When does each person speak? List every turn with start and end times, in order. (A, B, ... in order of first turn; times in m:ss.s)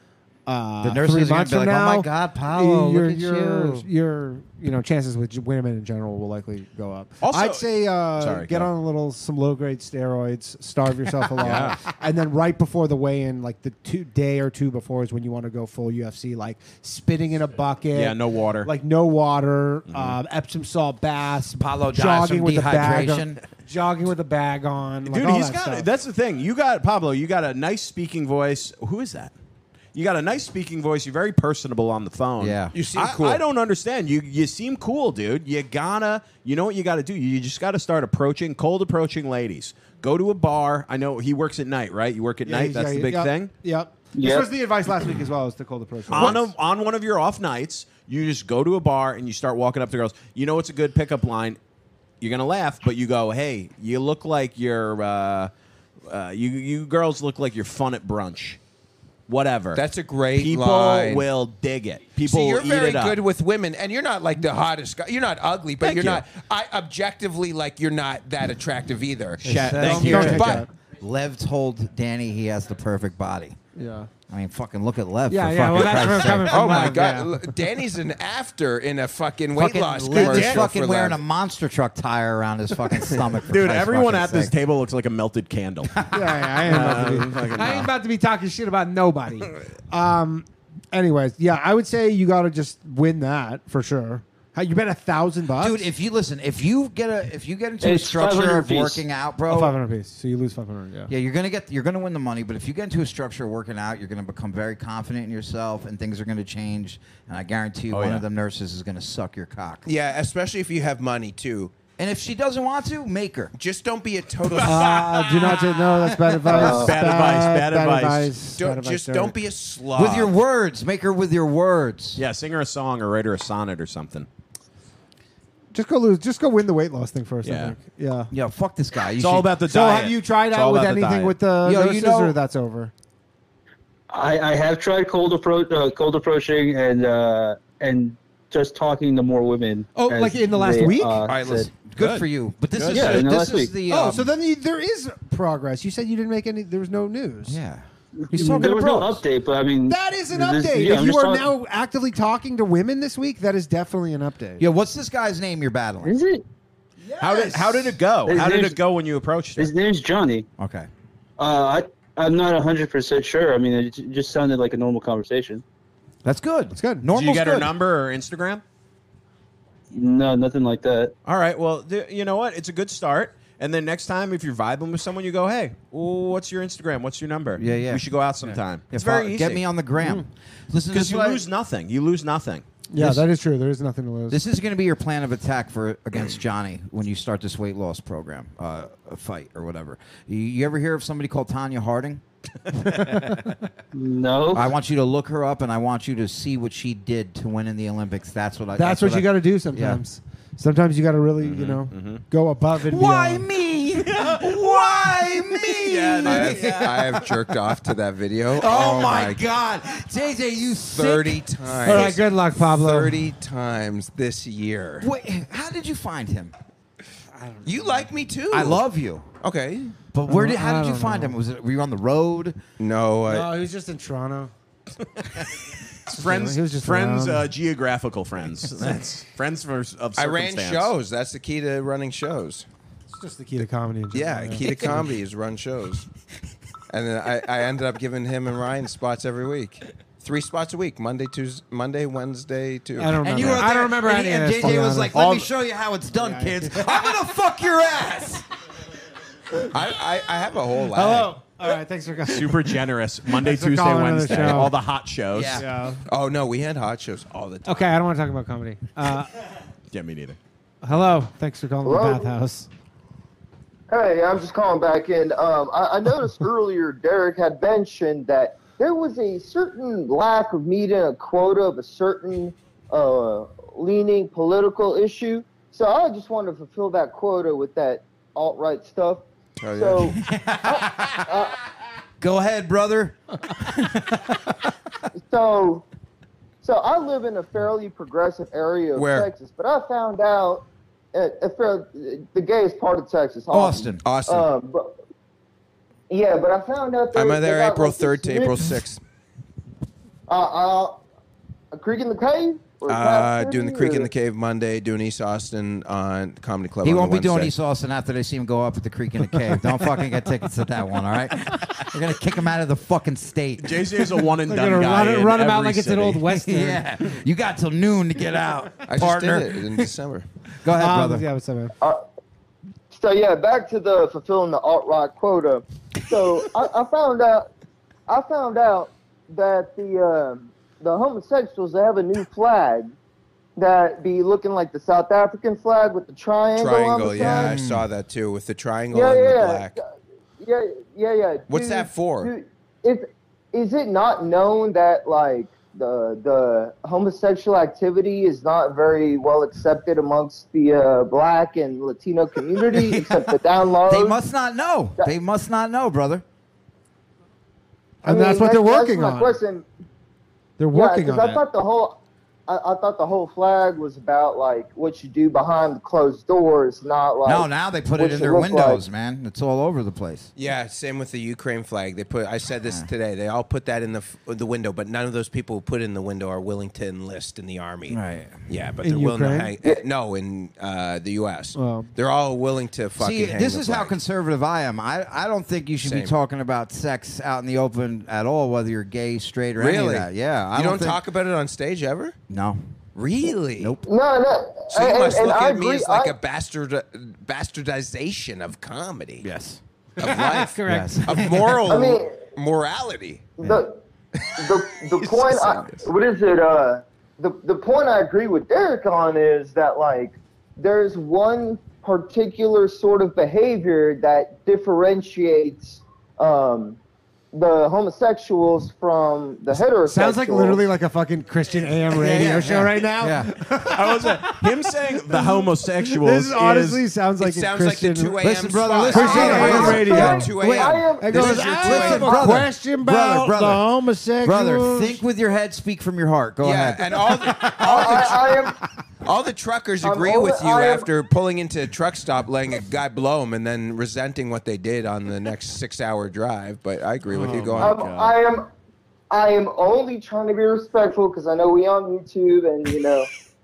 0:00.5-0:25.9 A
0:00.8-0:03.9 B
0:07.2-0:08.7 C
0:11.4-0:11.8 C
0:17.9-0:18.7 C
0:19.9-0:20.2 C
0:21.6-0:23.4 B
0:25.0-0:29.3 C
0:29.9-0:43.5 C
0:32.4-0:32.7 B
0:32.7-0:33.4 D
0:42.4-0:46.5 A
0:44.1-0:44.5 E
0:46.1-0:51.6 C
0:52.2-0:55.5 C
0:56.1-0:58.6 C
0:59.3-0:59.8 C
0:59.7-1:01.3 D
1:00.4-1:03.2 C
1:02.2-1:10.6 D
1:05.8-1:06.2 C
1:09.4-1:10.6 C
1:09.4-1:10.7 A
1:09.5-1:13.6 B
1:13.8-1:14.1 A
1:14.3-1:16.9 B
1:15.3-1:17.4 A
1:16.5-1:21.2 D
1:19.5-1:24.5 B
1:20.1-1:20.6 A
1:23.5-1:25.9 C
1:26.1-1:35.9 A
1:26.6-1:27.9 C
1:35.6-1:39.8 B
1:37.8-1:39.0 E
1:39.5-1:41.1 A
1:41.1-1:49.8 B
1:47.9-1:48.2 C
1:49.8-1:51.7 D
1:52.0-1:53.5 B
1:53.5-1:55.0 D
1:54.6-1:59.3 A
1:56.5-1:58.3 C
1:56.6-1:57.0 E
1:58.6-2:00.4 D
1:59.9-2:02.2 B
2:02.2-2:04.3 C
2:05.7-2:08.3 A
2:07.4-2:07.8 C
2:08.3-2:09.5 B
2:09.2-2:11.4 C
2:09.7-2:12.9 A
2:11.6-2:12.4 B
2:14.1-2:21.7 E
2:19.9-2:21.3 A
2:21.2-2:24.3 B
2:22.0-2:23.3 C
2:22.9-2:23.7 E
2:23.9-2:27.6 A
2:27.5-2:29.2 B
2:28.2-2:31.5 E
2:28.3-2:29.0 A
2:29.9-2:34.6 A
2:34.6-2:36.2 B
2:36.0-2:36.4 E
2:37.0-2:37.9 A
2:37.2-2:39.7 C
2:38.2-2:38.8 E
2:39.6-2:40.5 E
2:40.6-2:40.9 B
2:41.4-2:45.6 E
2:46.2-2:47.7 B
2:46.7-2:47.0 A
2:47.1-2:48.6 C
2:49.9-2:51.1 E
2:51.2-2:59.6 C
2:57.6-3:01.4 B
3:00.0-3:00.2 A
3:00.9-3:02.6 C
3:02.9-3:04.4 A
3:03.0-3:03.2 B
3:04.3-3:12.2 B
3:12.8-3:13.5 A
3:13.9-3:14.7 E
3:14.5-3:20.0 B
3:18.8-3:23.5 A
3:21.4-3:22.2 C
3:22.9-3:27.0 B
3:24.2-3:27.0 C
3:26.2-3:29.4 D
3:28.6-3:32.1 B
3:30.9-3:35.1 D
3:31.8-3:33.2 A
3:35.0-3:36.5 B
3:37.3-3:38.1 A
3:37.6-3:38.8 D
3:38.5-3:39.2 B
3:39.4-3:39.9 D
3:40.1-3:42.6 B
3:40.3-3:41.4 A
3:42.8-3:43.5 D
3:43.3-3:44.5 A
3:46.1-3:50.9 C
3:46.1-3:47.5 A
3:50.2-3:52.6 D
3:53.1-3:54.9 A
3:54.1-3:56.1 D
3:56.9-4:03.6 D
4:03.0-4:05.2 A
4:03.2-4:08.4 B
4:05.1-4:05.5 C
4:06.1-4:06.9 A
4:09.7-4:11.3 D
4:10.9-4:12.7 A
4:12.3-4:15.6 C
4:13.3-4:14.7 A
4:15.3-4:15.6 B
4:15.5-4:16.0 A
4:16.1-4:17.9 D
4:17.6-4:19.3 A
4:19.9-4:20.4 C
4:20.8-4:22.7 A
4:21.8-4:22.3 F
4:23.9-4:41.5 F
4:39.6-4:40.1 D
4:40.2-4:41.1 B
4:42.2-4:44.5 B
4:45.3-4:45.8 F
4:46.6-4:54.9 F
4:49.0-4:49.3 D
4:53.5-4:54.0 B
4:54.0-4:54.5 D
4:56.1-4:58.7 F
4:57.1-4:59.0 D
5:00.3-5:01.0 F
5:01.7-5:04.1 F
5:02.9-5:07.5 D
5:06.8-5:13.8 B
5:13.6-5:16.4 C
5:14.4-5:16.8 A
5:16.5-5:19.6 B
5:18.9-5:20.2 D
5:20.6-5:21.2 B
5:20.8-5:21.7 A
5:22.9-5:27.5 F
5:28.1-5:32.9 F
5:33.6-5:37.6 F
5:36.6-5:39.8 D
5:37.1-5:37.8 B
5:38.9-5:39.8 F
5:40.4-5:54.2 F
5:41.5-5:42.3 D
5:52.7-5:53.2 B
5:53.9-5:56.2 B
5:58.0-5:59.3 A
5:58.0-5:59.6 F
6:00.6-6:01.4 A
6:00.7-6:08.8 F
6:07.2-6:10.3 B
6:10.4-6:23.9 D
6:17.9-6:18.4 B
6:18.8-6:19.5 A
6:21.5-6:21.9 A
6:23.0-6:31.0 B
6:25.8-6:26.1 D
6:29.6-6:32.1 D
6:32.3-6:32.6 B
6:33.0-6:33.8 D
6:33.6-6:33.8 B
6:33.8-6:36.2 F
6:34.7-6:39.2 D
6:39.2-6:39.6 B
6:40.0-6:41.1 A
6:40.0-6:43.3 D
6:40.6-6:41.5 B
6:41.6-6:42.2 F
6:43.4-6:43.8 F
6:44.4-6:56.8 F
6:45.0-6:45.8 C
6:57.3-7:00.7 F
6:59.8-7:04.4 A
7:01.9-7:03.3 B
7:03.7-7:06.8 C
7:05.1-7:08.2 A
7:07.2-7:12.3 D
7:08.2-7:10.4 B
7:08.9-7:15.0 A
7:08.9-7:11.4 F
7:11.2-7:13.7 B
7:14.2-7:17.5 B
7:16.4-7:18.4 D
7:17.6-7:18.6 F
7:19.0-7:27.8 D
7:19.8-7:20.9 F
7:27.1-7:28.2 C
7:27.6-7:28.5 F
7:29.1-7:33.1 F